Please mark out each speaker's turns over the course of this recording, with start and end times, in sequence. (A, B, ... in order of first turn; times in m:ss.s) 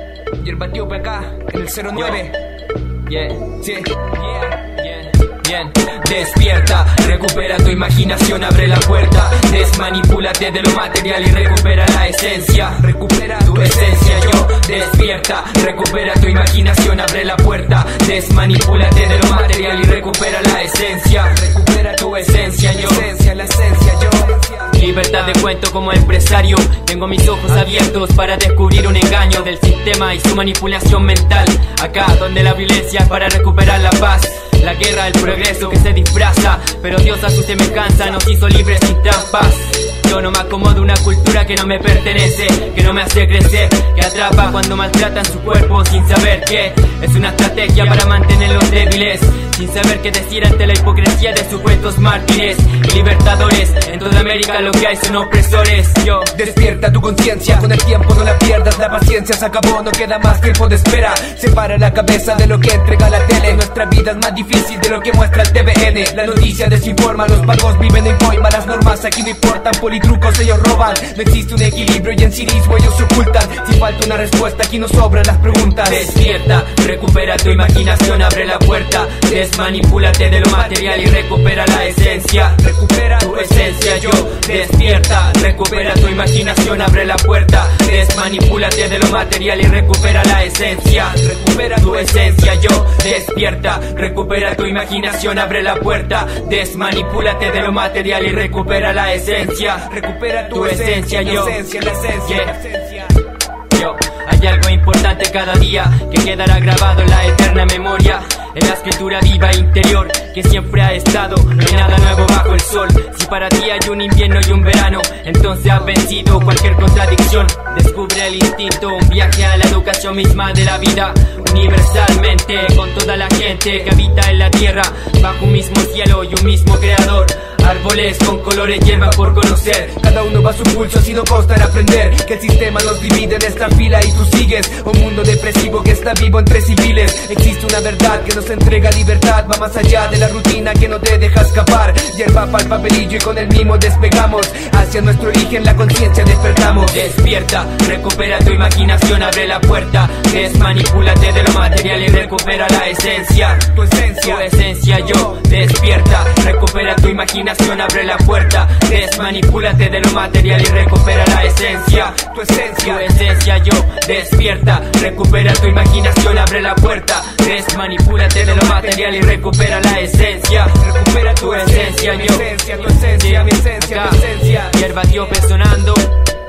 0:00.4-0:02.4 A
0:02.0-0:02.3 B
0:03.1-0:03.6 B
0:03.6-0:04.1 A
0:04.5-0:23.1 B
0:12.8-0:14.6 A
0:21.4-0:24.5 A
0:24.6-0:56.4 B
0:56.3-1:16.1 A
1:15.8-1:39.9 B
1:22.0-1:25.0 A
1:25.7-1:26.1 A
1:31.1-1:32.4 A
1:39.6-1:43.1 A
1:40.5-1:41.6 B
1:42.2-1:42.6 B
1:43.7-2:10.0 B
2:09.3-2:27.1 A
2:26.8-2:42.2 B
2:33.7-2:35.4 A
2:42.0-2:43.1 A
2:42.8-2:56.2 B
2:48.4-2:49.1 A
2:50.8-2:54.8 A